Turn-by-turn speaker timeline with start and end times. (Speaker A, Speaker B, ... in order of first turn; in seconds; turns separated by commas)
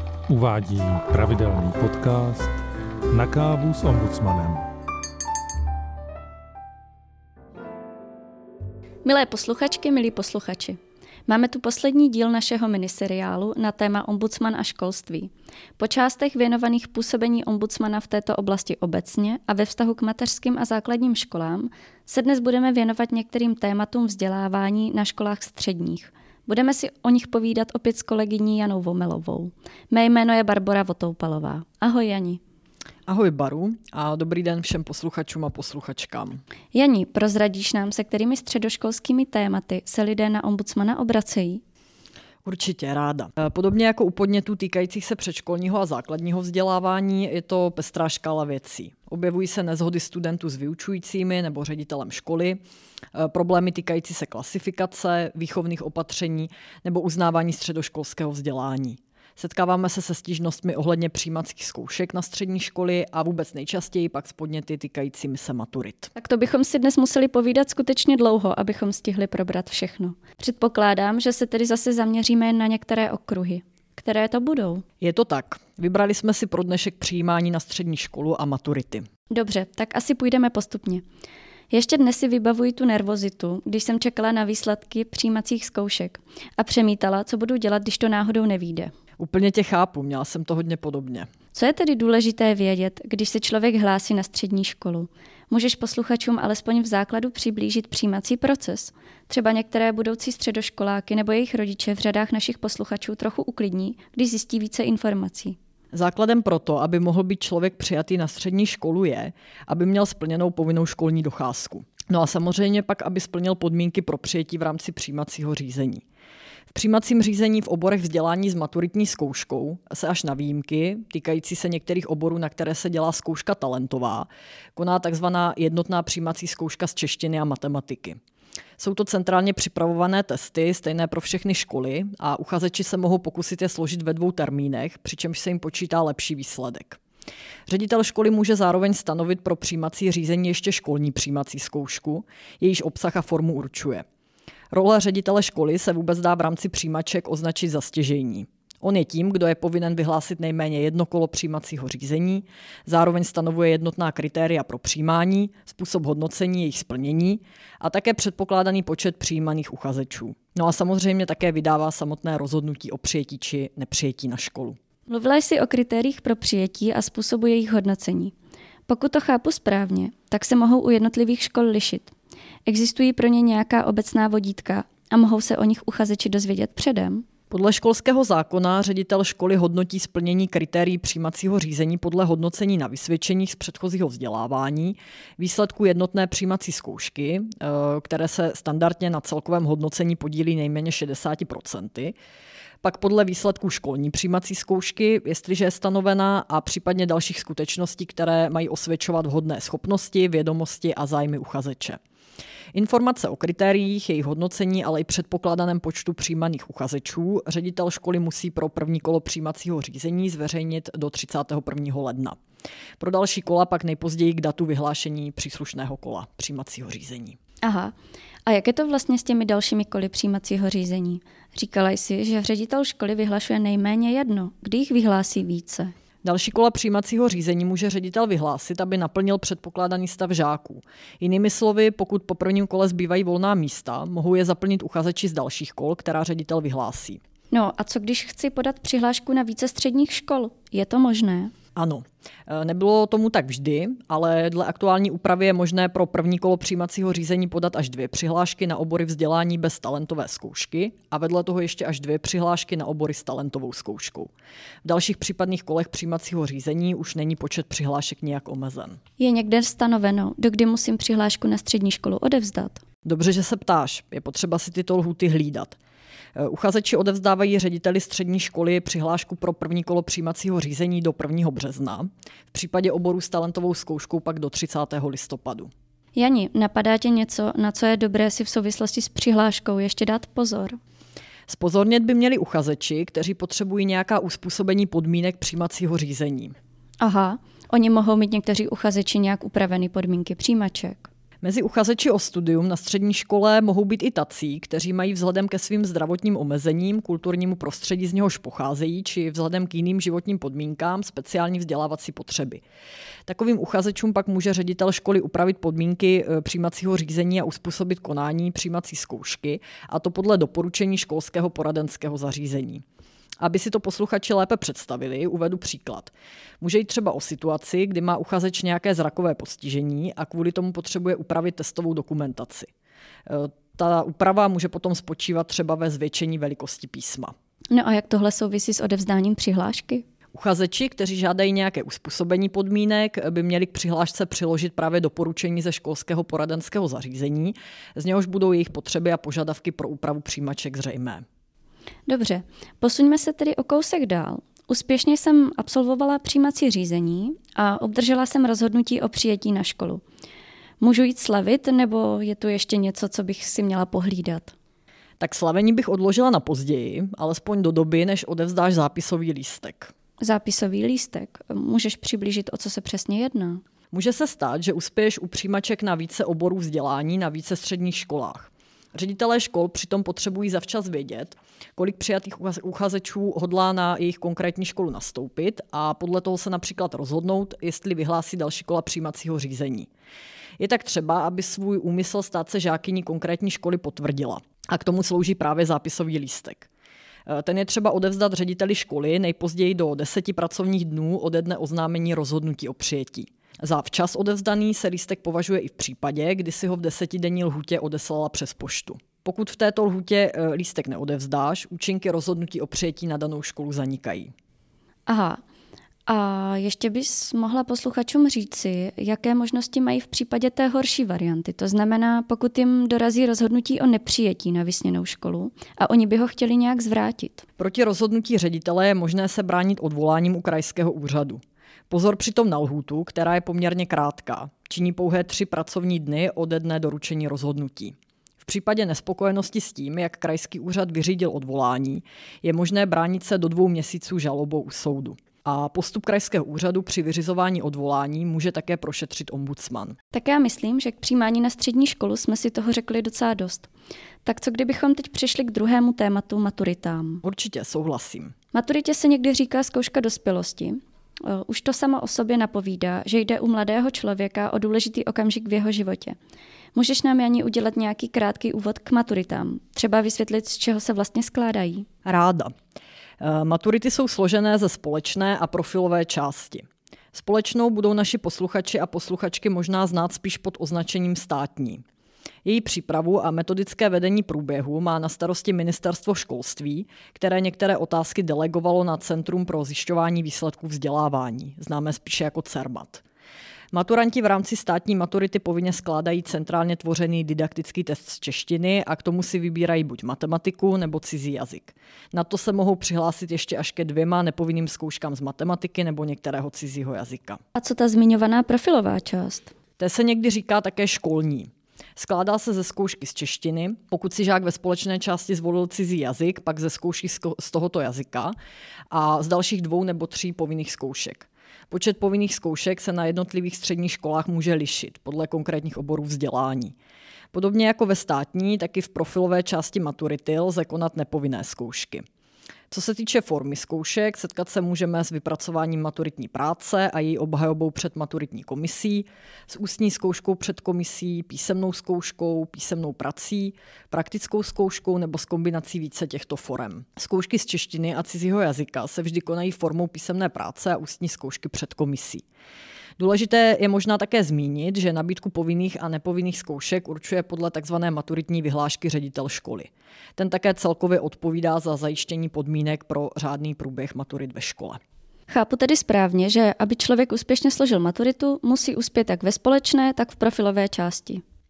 Speaker A: 0.3-2.6, Speaker A: 3.1-4.6, Speaker B: 9.0-32.4, Speaker C: 33.1-36.4, Speaker B: 36.7-41.6, Speaker C: 42.4-52.6, Speaker C: 53.1-66.1, Speaker B: 66.1-74.8, Speaker C: 75.0-79.0, Speaker B: 79.3-81.0, Speaker B: 81.7-88.9, Speaker C: 89.2-91.3, Speaker B: 91.5-105.6, Speaker C: 105.9-116.0, Speaker C: 116.7-128.2, Speaker C: 128.8-137.0, Speaker C: 137.7-144.0, Speaker C: 144.7-164.8, Speaker B: 165.1-168.3, Speaker B: 168.9-172.1, Speaker B: 172.7-177.2, Speaker C: 177.5-192.2, Speaker C: 192.8-202.0, Speaker C: 202.7-212.4, Speaker C: 213.0-217.3, Speaker B: 217.6-217.9, Speaker B: 218.4-225.9, Speaker C: 226.2-237.2, Speaker B: 237.5-241.5, Speaker C: 241.8-254.3, Speaker C: 254.8-259.0, Speaker B: 259.2-262.8, Speaker C: 263.0-265.8, Speaker C: 266.4-275.7, Speaker B: 276.1-280.8, Speaker C: 281.5-286.6, Speaker B: 287.0-291.1, Speaker C: 291.4-302.6, Speaker C: 303.3-312.8, Speaker C: 313.4-322.7, Speaker C: 323.2-327.3, Speaker B: 327.7-330.0, Speaker C: 330.3-341.2, Speaker B: 342.1-350.0, Speaker B: 350.8-354.5, Speaker C: 355.2-359.9, Speaker B: 360.2-363.6, Speaker C: 363.9-379.9, Speaker C: 380.6-386.7, Speaker C: 387.3-404.3, Speaker B: 405.1-405.4, Speaker B: 406.1-417.4, Speaker C: 417.6-439.9, Speaker B: 440.1-443.7, Speaker B: 444.2-447.2, Speaker C: 447.2-448.3, Speaker B: 448.5-456.1, Speaker B: 456.7-461.9, Speaker C: 462.0-462.5, Speaker C: 463.2-471.8, Speaker C: 472.4-483.0, Speaker C: 483.7-497.4, Speaker B: 497.5-499.5, Speaker C: 499.8-508.3, Speaker C: 508.9-516.7, Speaker C: 517.3-522.0, Speaker C: 522.7-542.2, Speaker C: 543.0-554.8, Speaker B: 555.3-561.2